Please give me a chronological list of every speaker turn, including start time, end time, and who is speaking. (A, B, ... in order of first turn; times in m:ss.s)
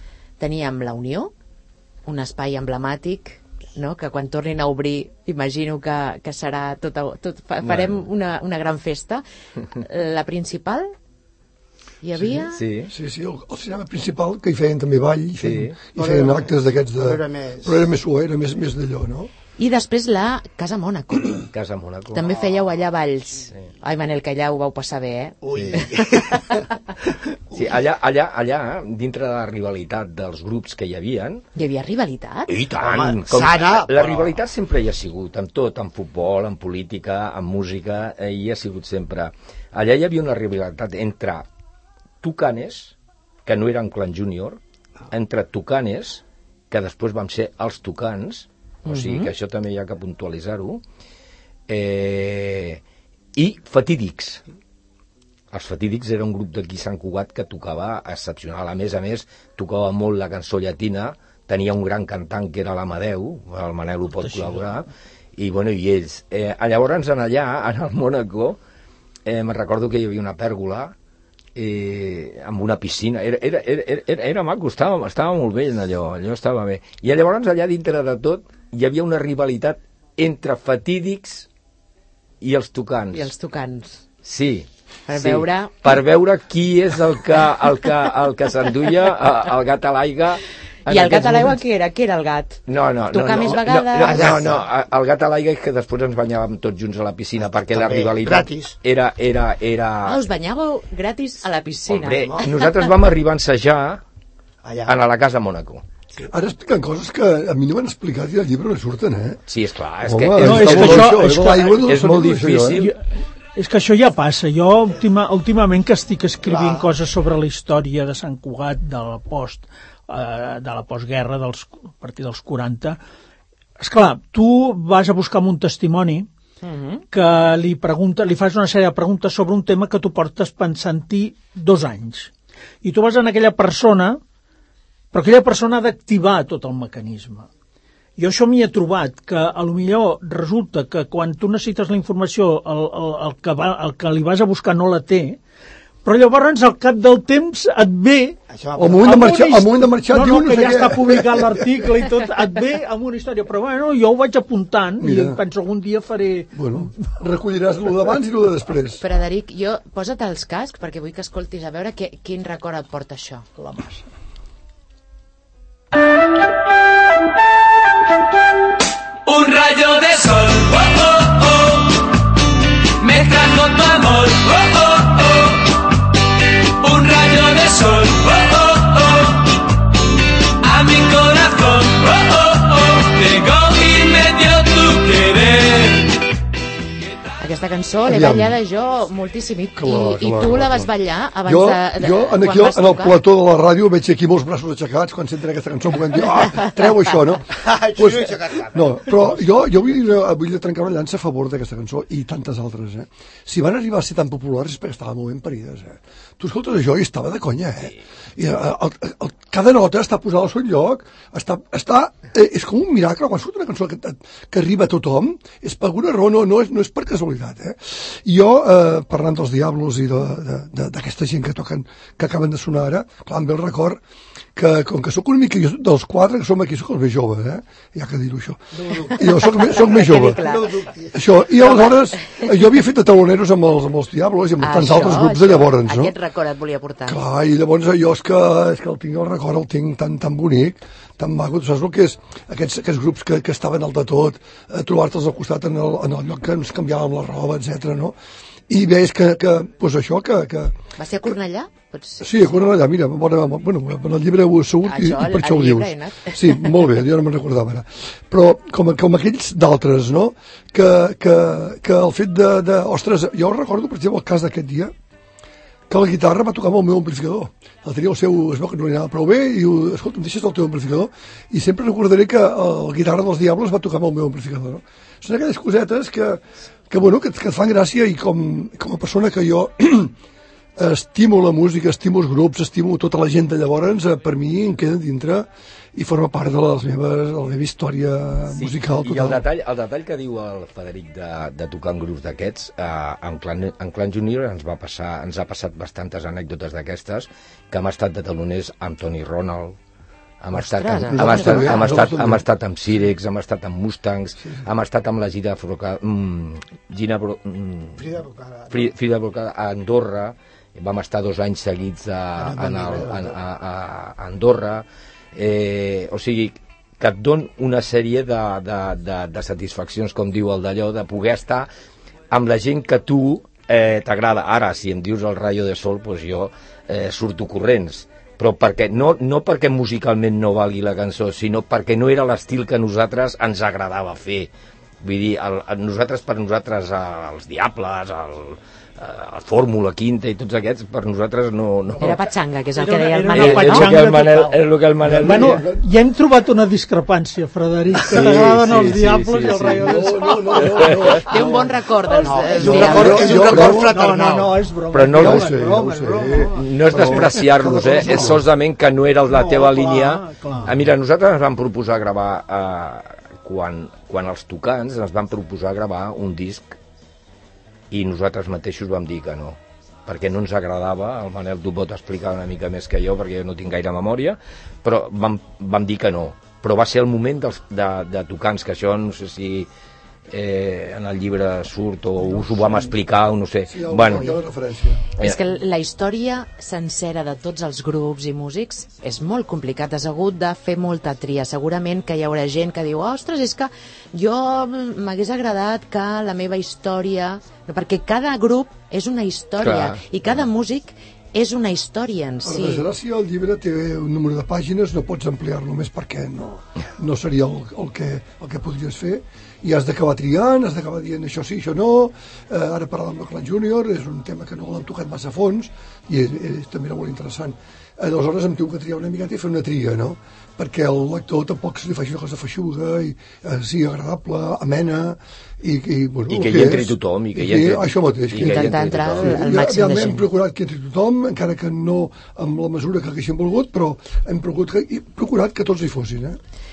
0:00.4-0:01.3 A
0:02.1-0:09.2 A
0:07.6-0:08.0 B
0:09.8-0:10.9 A
0:12.0-0:12.6 A
0:12.2-0:19.3 C
0:12.4-0:12.9 B
0:15.4-0:15.8 B
0:16.0-0:17.9 D
0:19.6-0:21.5 A
0:21.5-0:22.4 B
0:22.1-0:26.6 A
0:25.4-0:26.6 D
0:25.5-0:25.9 B
0:27.5-0:31.4 B
0:31.6-0:32.5 A
0:32.5-0:41.5 B
0:32.7-0:34.4 D
0:42.2-0:43.0 B
0:43.5-0:44.6 B
0:45.1-0:50.8 B
0:48.8-0:49.3 A
0:51.7-0:52.8 B
0:53.4-0:54.4 B
0:55.5-1:04.8 B
1:04.1-1:04.8 E
1:05.4-1:08.6 B
1:09.3-1:10.9 B
1:11.6-1:21.5 B
1:22.4-1:23.3 B
1:23.1-1:24.0 A
1:24.2-1:31.6 B
1:25.1-1:26.0 A
1:30.9-1:34.3 A
1:32.7-1:40.2 B
1:34.0-1:34.6 D
1:37.5-1:38.8 D
1:40.0-1:42.9 A
1:41.9-1:44.0 B
1:42.1-1:42.4 D
1:44.6-1:45.0 D
1:44.9-1:45.8 B
1:46.2-1:49.4 C
1:49.5-1:52.9 B
1:50.0-1:52.9 C
1:50.4-1:51.9 E
1:52.8-1:53.0 E
1:53.6-2:03.0 E
1:56.4-1:56.9 D
2:03.8-2:06.3 E
2:06.6-2:07.0 A
2:07.1-2:12.3 E
2:12.8-2:14.2 E
2:15.1-2:17.5 E
2:18.2-2:25.4 E
2:26.0-2:28.4 E
2:28.5-2:29.3 D
2:28.8-2:31.9 C
2:29.0-2:36.6 E
2:35.0-2:35.4 C
2:36.5-2:39.0 C
2:39.0-2:43.5 A
2:43.6-2:44.0 E
2:49.3-2:52.1 F
2:53.0-2:55.8 F
2:56.8-2:59.6 F
3:00.6-3:06.2 F
3:07.4-3:13.2 A
3:08.1-3:08.6 C
3:09.8-3:10.9 C
3:11.4-3:44.0 C
3:17.5-3:19.7 D
3:44.6-3:50.5 C
3:49.0-3:51.2 D
3:49.2-3:50.9 A
3:51.1-3:56.2 C
3:54.6-3:57.2 A
3:57.1-4:08.2 C
4:08.7-4:10.8 C
4:11.0-4:12.6 A
4:12.2-4:24.9 C
4:14.8-4:16.8 A
4:25.9-4:40.2 C
4:40.8-4:49.4 C
4:48.5-4:59.8 B
5:00.4-5:08.1 B
5:00.5-5:01.9 A
5:01.1-5:02.4 C
5:08.0-5:08.9 D
5:08.7-5:14.8 B
5:12.4-5:13.4 D
5:15.4-5:21.7 B
5:22.3-5:34.5 B
5:35.0-5:42.2 B
5:42.0-5:43.9 A
5:42.8-5:44.7 E
5:43.3-5:45.6 B
5:45.0-5:45.8 C
5:45.2-5:51.4 E
5:48.0-5:50.1 B
5:49.8-5:51.7 C
5:50.6-5:51.0 B
5:51.2-5:53.3 A
5:52.1-5:57.4 E
5:52.2-5:54.6 D
5:52.6-5:53.9 C
5:54.9-5:55.6 B
5:55.1-5:58.4 C
5:56.4-6:06.8 B
5:58.0-5:58.3 E
5:59.3-6:00.8 E
6:07.9-6:19.7 B
6:20.3-6:24.4 B
6:22.2-6:23.0 E
6:23.7-6:25.0 C
6:25.2-6:42.9 A
6:39.6-6:40.0 B
6:42.4-7:16.4 C
7:06.3-7:09.4 B
7:08.4-7:10.2 A